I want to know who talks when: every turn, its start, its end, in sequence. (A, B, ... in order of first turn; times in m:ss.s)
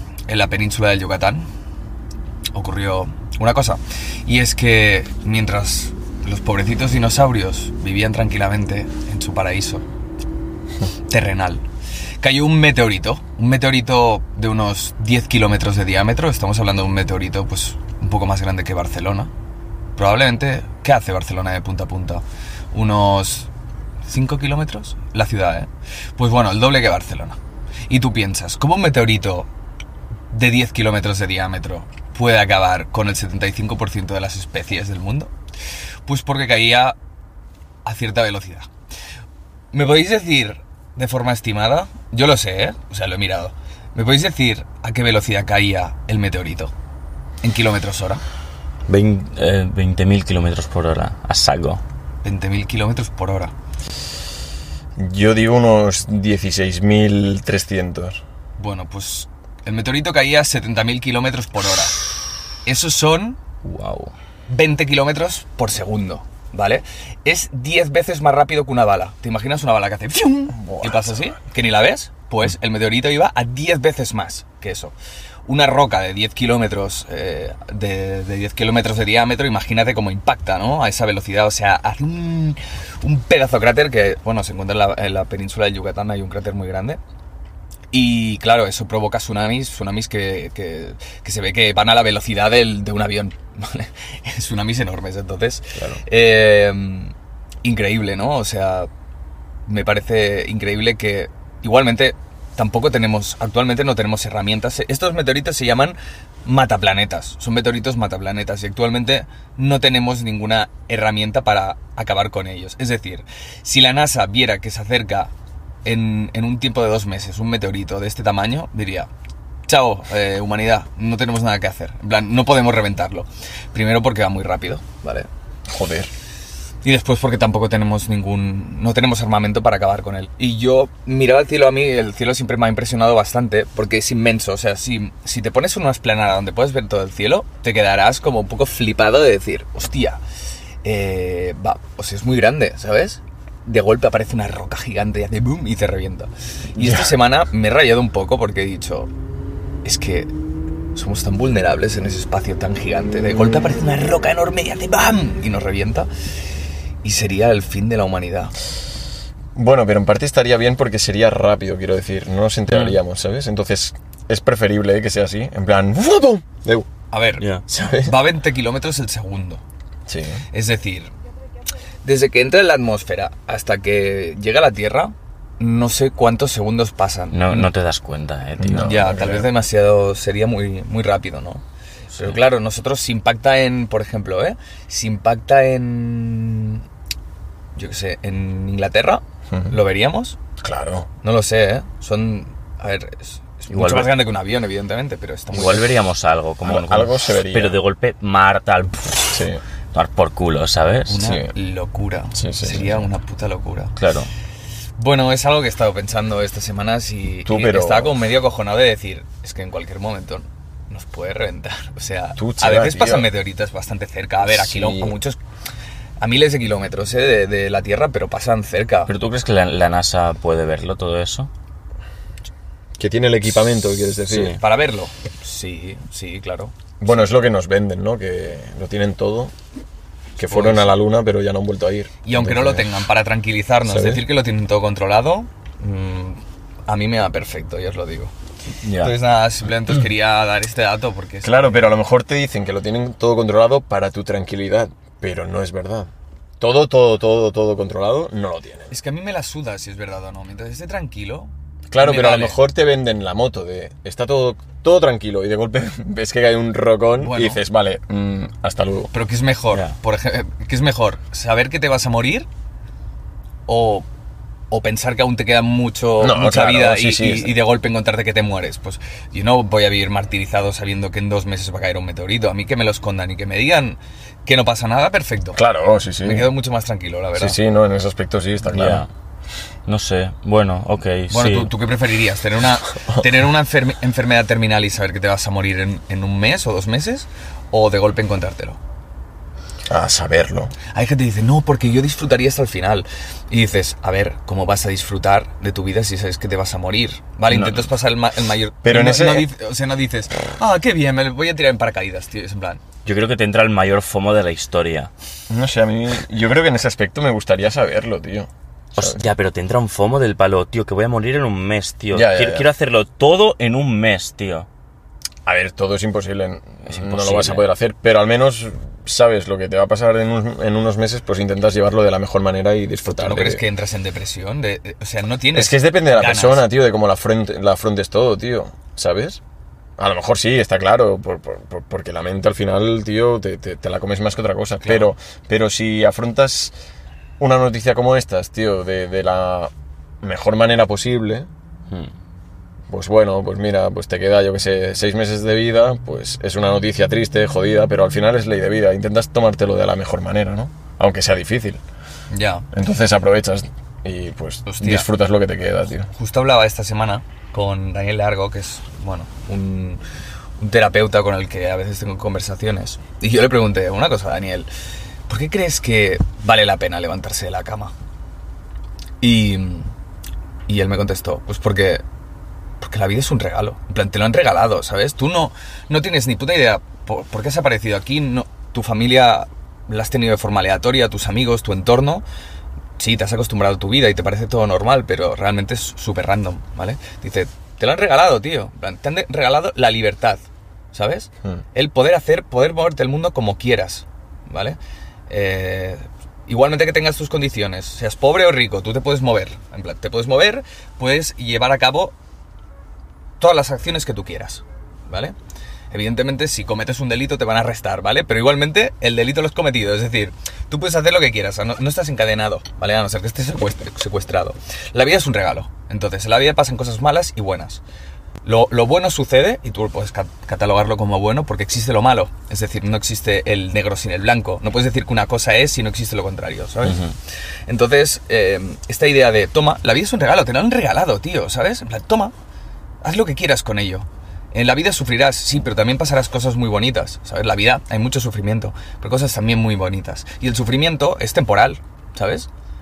0:00.3-0:01.5 A
0:02.5-0:09.8 A
0:11.1-0:11.6 A
0:12.2-0:19.3 A
0:20.0-0:23.5 A
0:24.1-0:27.4 A
0:27.9-0:29.5 A
0:30.3-0:35.3 A
0:36.1-0:37.0 A
0:37.8-0:38.7 A
0:39.7-0:46.7 A
0:47.4-0:48.2 A
0:48.9-0:51.8 B
0:52.2-0:53.5 A
0:55.0-0:58.2 C
0:58.6-1:02.0 A
1:02.6-1:03.4 A
1:03.6-1:04.1 B
1:04.5-1:14.9 A
1:10.5-1:11.3 C
1:15.5-1:27.0 A
1:27.9-1:38.9 A
1:35.8-1:36.0 C
1:39.7-1:55.3 A
1:55.8-1:59.1 A
1:59.7-2:05.3 A
2:05.7-2:06.1 C
2:06.8-2:20.2 A
2:20.8-2:29.1 A
2:26.8-2:27.2 C
2:29.8-2:30.3 A
2:31.0-2:36.1 A
2:37.0-2:38.5 A
2:39.6-2:46.9 C
2:42.7-2:43.0 B
2:47.1-2:47.5 A
2:47.7-2:48.2 C
2:48.0-2:49.6 A
2:50.1-2:50.4 C
2:50.5-2:51.1 A
2:52.0-2:57.7 A
2:57.3-2:59.0 B
2:58.6-2:59.5 C
2:58.8-3:01.6 A
3:02.1-3:02.4 B
3:02.2-3:06.8 A
3:07.8-3:10.4 A
3:10.6-3:11.1 C
3:11.2-3:15.9 A
3:13.7-3:14.2 B
3:15.5-3:19.4 B
3:16.6-3:17.8 C
3:19.3-3:19.6 C
3:19.9-3:21.2 B
3:21.1-3:24.0 A
3:21.2-3:21.5 C
3:22.4-3:23.1 C
3:24.0-3:24.3 B
3:25.0-3:35.4 A
3:27.4-3:28.2 C
3:32.4-3:33.3 C
3:34.4-3:35.2 C
3:36.2-3:39.1 A
3:39.1-3:41.5 B
3:43.0-3:44.6 C
3:44.3-3:44.6 B
3:44.4-3:46.8 A
3:47.0-3:49.5 C
3:50.4-3:52.9 C
3:50.4-3:50.9 A
3:52.2-3:58.3 A
3:53.8-3:54.2 C
3:58.8-3:59.1 B
3:59.0-4:01.9 A
4:01.4-4:08.9 C
4:08.9-4:12.6 A
4:11.9-4:19.1 C
4:17.2-4:17.6 A
4:19.1-4:22.5 A
4:23.7-4:24.1 A
4:24.7-4:35.6 A
4:26.2-4:27.6 C
4:35.6-4:36.5 C
4:36.2-4:37.6 A
4:37.4-4:39.1 C
4:38.7-4:39.1 B
4:39.9-4:41.7 B
4:41.3-4:48.8 A
4:49.9-4:50.7 C
4:50.9-5:02.8 A
4:57.5-4:57.9 B
4:58.8-4:59.5 C
5:03.0-5:05.1 B
5:05.5-5:09.2 C
5:09.0-5:14.7 B
5:12.1-5:12.7 C
5:15.5-5:23.6 C
5:16.9-5:17.6 B
5:23.2-5:26.7 A
5:25.5-5:29.4 C
5:30.0-5:36.7 C
5:34.8-5:35.1 A
5:37.4-5:41.5 C
5:42.9-5:51.8 C
5:52.3-5:52.7 A
5:52.7-5:56.1 C
5:54.6-5:55.1 A
5:56.1-6:00.0 A
6:00.6-6:04.7 A
6:05.3-6:07.9 A
6:09.2-6:09.9 A
6:10.7-6:12.0 A
6:12.8-6:22.2 A
6:23.0-6:34.8 A
6:35.3-6:42.1 A
6:43.4-6:45.4 A
6:45.9-6:57.8 A
6:58.4-7:07.0 A
7:06.8-7:07.1 B
7:07.7-7:12.3 A
7:13.0-7:22.5 A